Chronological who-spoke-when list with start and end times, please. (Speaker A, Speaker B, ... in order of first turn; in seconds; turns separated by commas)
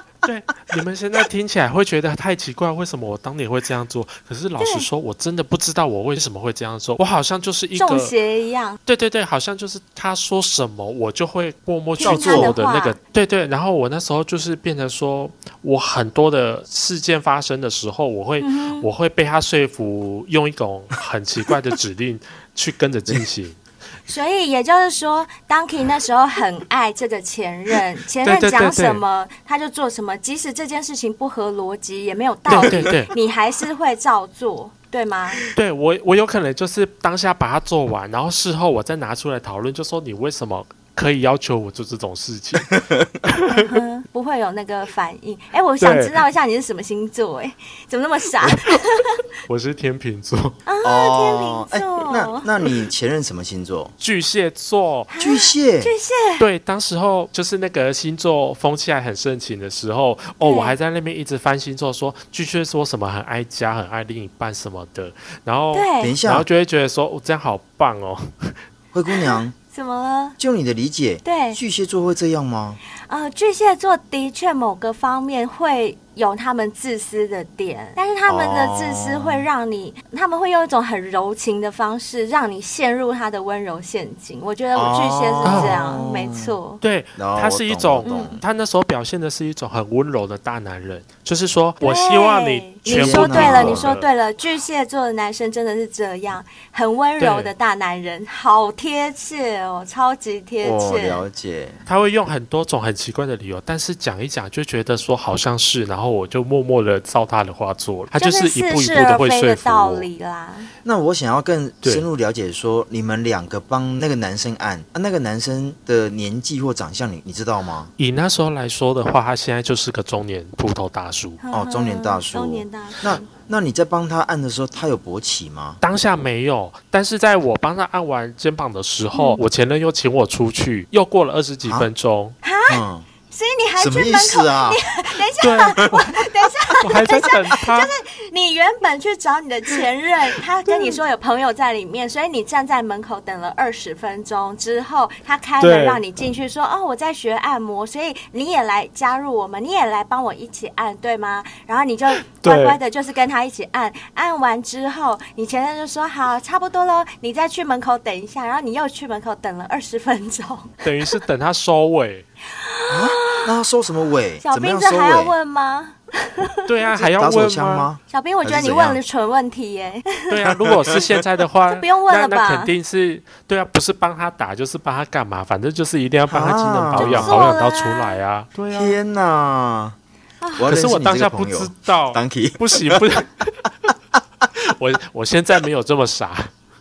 Speaker A: 0.2-8.1, Speaker B: 4.6-4.9, Speaker B: 7.7-8.8, Speaker A: 8.8-23.6, Speaker B: 12.0-13.0, Speaker C: 12.0-12.6, Speaker B: 18.4-18.9, Speaker B: 24.1-35.4, Speaker A: 28.2-29.0, Speaker A: 32.5-33.1, Speaker C: 32.5-32.9, Speaker A: 35.5-42.8, Speaker C: 42.7-43.2, Speaker A: 43.3-43.8, Speaker B: 43.5-49.1, Speaker A: 45.8-46.2, Speaker A: 48.5-48.8, Speaker A: 49.5-50.5, Speaker B: 50.6-52.5, Speaker C: 50.8-53.9, Speaker A: 54.0-55.1, Speaker B: 55.1-56.5, Speaker C: 55.2-55.9, Speaker A: 56.4-68.6, Speaker B: 60.4-60.7, Speaker B: 65.7-66.2, Speaker C: 66.0-66.5, Speaker C: 68.9-69.5, Speaker B: 69.3-70.4, Speaker C: 70.4-72.8, Speaker B: 71.2-71.6, Speaker B: 73.0-86.8, Speaker C: 78.3-79.5, Speaker C: 84.7-86.5, Speaker A: 85.4-86.0, Speaker A: 86.8-94.1, Speaker C: 87.2-88.4, Speaker B: 88.0-88.3, Speaker B: 91.8-101.2, Speaker C: 92.8-93.9, Speaker A: 97.2-97.5, Speaker C: 100.6-101.8, Speaker A: 101.8-110.1, Speaker B: 108.1-110.7, Speaker C: 110.8-117.9, Speaker A: 118.0-121.4, Speaker B: 121.4-123.3, Speaker C: 121.5-125.8, Speaker A: 125.8-132.3, Speaker B: 129.1-129.4, Speaker B: 132.4-161.1, Speaker C: 132.7-133.1, Speaker C: 133.8-134.8, Speaker A: 135.4-137.9, Speaker A: 140.7-141.0, Speaker A: 145.6-146.0, Speaker A: 152.3-152.8, Speaker A: 160.8-162.3, Speaker B: 162.5-163.5, Speaker C: 162.9-165.3, Speaker B: 164.4-166.7, Speaker A: 166.7-167.9, Speaker C: 166.9-169.0, Speaker B: 168.1-170.3, Speaker A: 170.3-179.0, Speaker C: 170.4-171.1, Speaker B: 171.6-172.7, Speaker C: 176.3-177.5, Speaker B: 176.9-178.2, Speaker C: 178.7-179.9, Speaker B: 180.4-180.7, Speaker C: 180.6-183.1, Speaker A: 180.7-183.7, Speaker A: 184.6-186.5